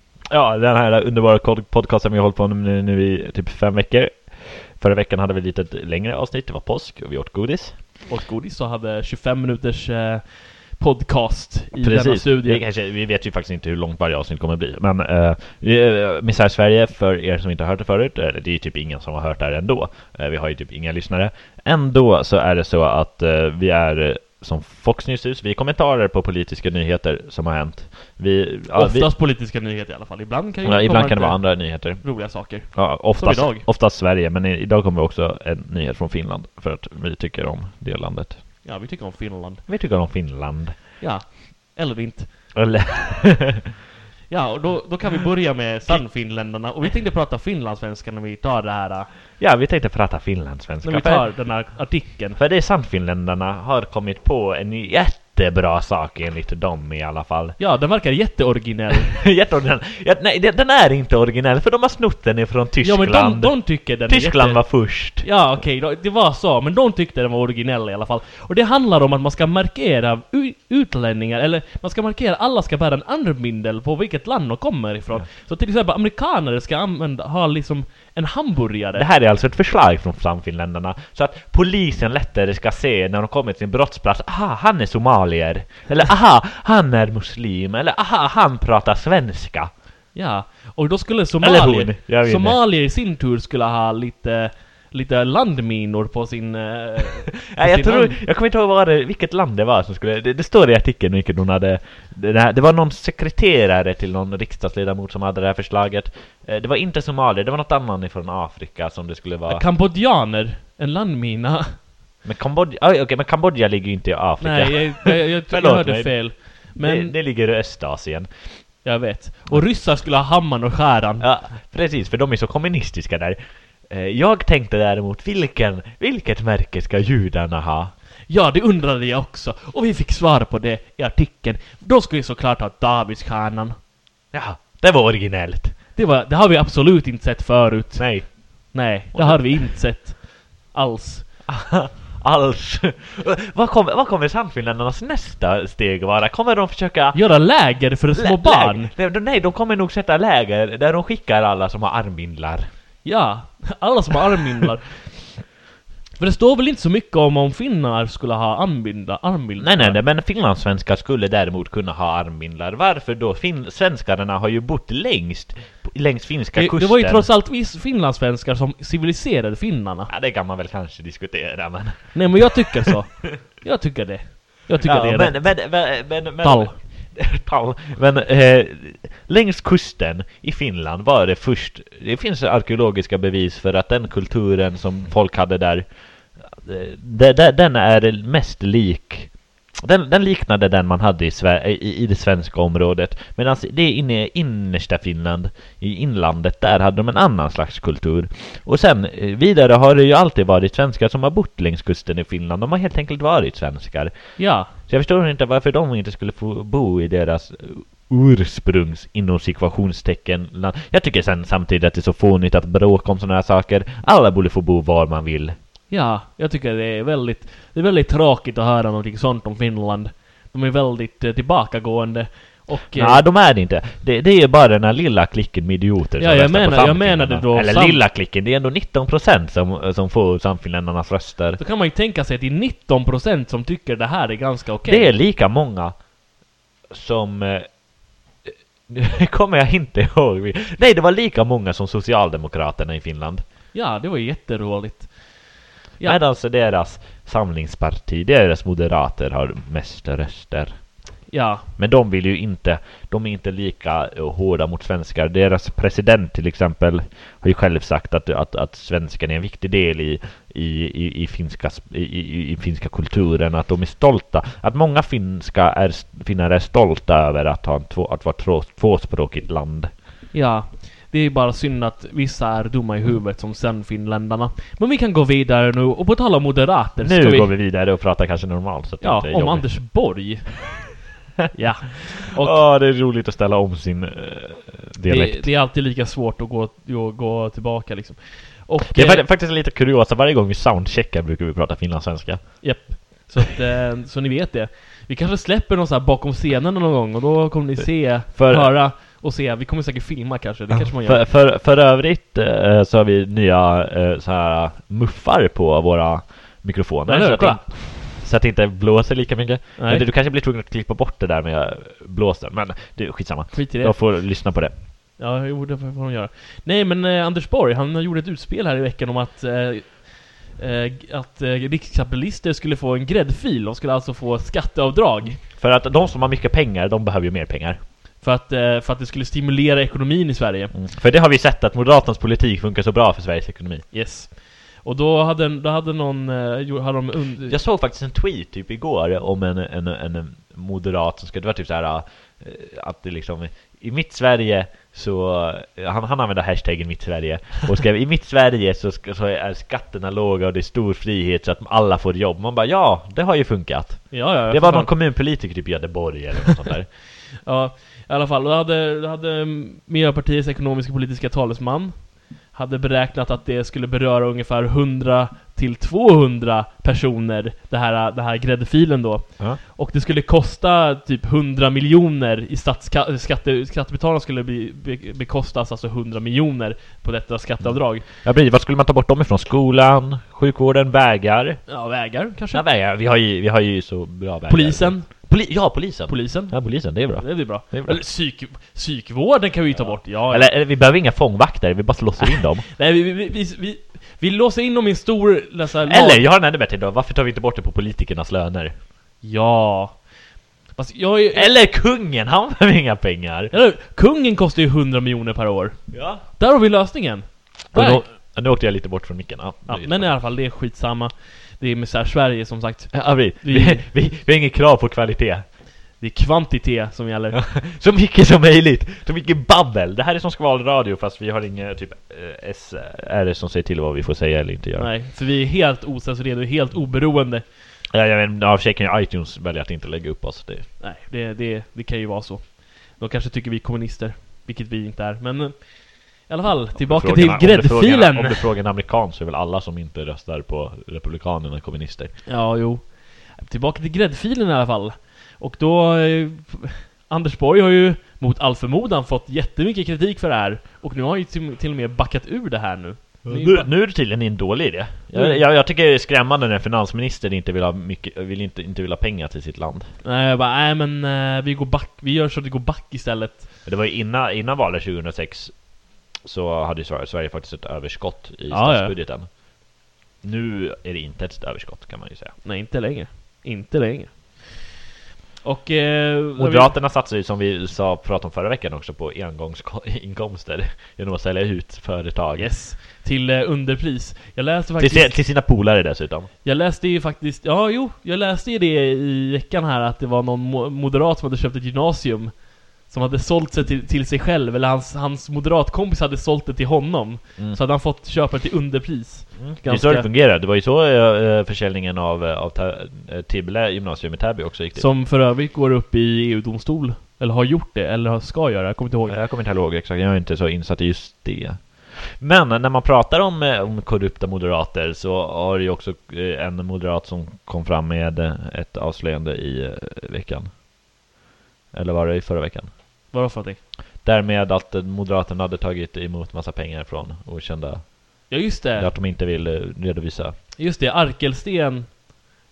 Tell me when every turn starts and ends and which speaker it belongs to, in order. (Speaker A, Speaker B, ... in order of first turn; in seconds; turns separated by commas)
Speaker A: 0.3-7.8, Speaker B: 8.1-12.6, Speaker A: 11.8-29.1, Speaker B: 28.7-33.7, Speaker A: 30.6-38.4, Speaker B: 38.6-39.6, Speaker A: 39.7-41.0, Speaker B: 41.0-42.5, Speaker A: 42.5-43.7, Speaker B: 44.3-49.1, Speaker A: 49.4-51.6, Speaker B: 50.8-52.4, Speaker A: 52.4-57.6, Speaker B: 57.6-59.2, Speaker A: 59.1-65.3, Speaker B: 62.8-79.1, Speaker A: 79.0-89.7, Speaker B: 90.1-98.2, Speaker A: 91.4-92.6, Speaker A: 97.5-109.6, Speaker B: 109.5-112.0, Speaker A: 112.2-118.8, Speaker B: 114.4-117.2, Speaker B: 118.8-121.3, Speaker A: 121.2-127.9, Speaker B: 128.3-133.8, Speaker A: 134.3-135.8, Speaker B: 135.9-141.3, Speaker A: 138.0-139.6, Speaker A: 141.5-147.2, Speaker B: 147.1-148.9, Speaker A: 148.2-152.7, Speaker B: 153.0-155.5, Speaker B: 156.2-160.0, Speaker A: 159.6-167.3, Speaker B: 166.6-170.1, Speaker A: 170.1-172.9, Speaker B: 172.1-176.8, Speaker A: 174.8-215.6, Speaker B: 204.4-204.7, Speaker B: 215.9-223.2, Speaker A: 222.9-231.6, Speaker B: 226.2-228.0, Speaker B: 231.6-235.1, Speaker A: 234.8-236.1, Speaker A: 236.9-237.9, Speaker A: 238.4-243.4, Speaker B: 243.7-246.2, Speaker A: 246.0-250.9, Speaker B: 251.3-251.7, Speaker A: 251.8-269.9, Speaker B: 270.3-277.5, Speaker A: 277.0-279.9, Speaker B: 279.0-282.6, Speaker A: 282.4-285.5, Speaker B: 285.1-289.3, Speaker A: 288.9-292.9, Speaker B: 292.6-301.3, Speaker A: 298.3-298.8, Speaker A: 300.7-314.7, Speaker B: 307.1-307.6, Speaker B: 309.8-310.1, Speaker B: 313.5-314.2, Speaker B: 315.2-325.4, Speaker A: 325.5-327.8, Speaker B: 328.2-330.7, Speaker A: 330.7-333.9, Speaker B: 333.9-337.6, Speaker A: 337.4-356.9, Speaker B: 354.1-354.9, Speaker B: 357.4-378.1, Speaker A: 377.6-381.6, Speaker B: 381.7-382.6, Speaker A: 382.5-388.0, Speaker B: 384.5-385.3, Speaker B: 386.1-390.5, Speaker A: 389.7-392.7, Speaker B: 392.2-396.2, Speaker A: 395.9-398.7, Speaker B: 399.2-400.1, Speaker B: 400.7-401.5, Speaker A: 401.3-403.5, Speaker B: 403.5-408.0, Speaker A: 405.9-406.2, Speaker A: 407.7-410.1, Speaker B: 409.7-413.9, Speaker A: 412.9-415.4, Speaker B: 416.0-417.4, Speaker A: 417.3-424.9, Speaker B: 424.8-427.4, Speaker A: 427.9-430.7, Speaker B: 430.8-438.5, Speaker A: 436.8-442.1, Speaker B: 442.3-453.7, Speaker A: 453.2-459.9, Speaker B: 455.1-455.4, Speaker B: 460.0-463.5, Speaker A: 463.6-469.6, Speaker B: 468.5-468.9, Speaker A: 470.2-472.4, Speaker B: 472.4-474.7, Speaker B: 475.4-476.7, Speaker A: 476.4-482.5, Speaker B: 482.4-485.2, Speaker A: 484.8-486.3, Speaker B: 486.4-500.1, Speaker A: 499.4-504.9, Speaker B: 504.8-509.2, Speaker A: 509.1-520.5, Speaker A: 521.7-522.7, Speaker B: 523.1-523.6, Speaker A: 524.0-530.4, Speaker B: 528.3-528.9, Speaker B: 530.6-532.3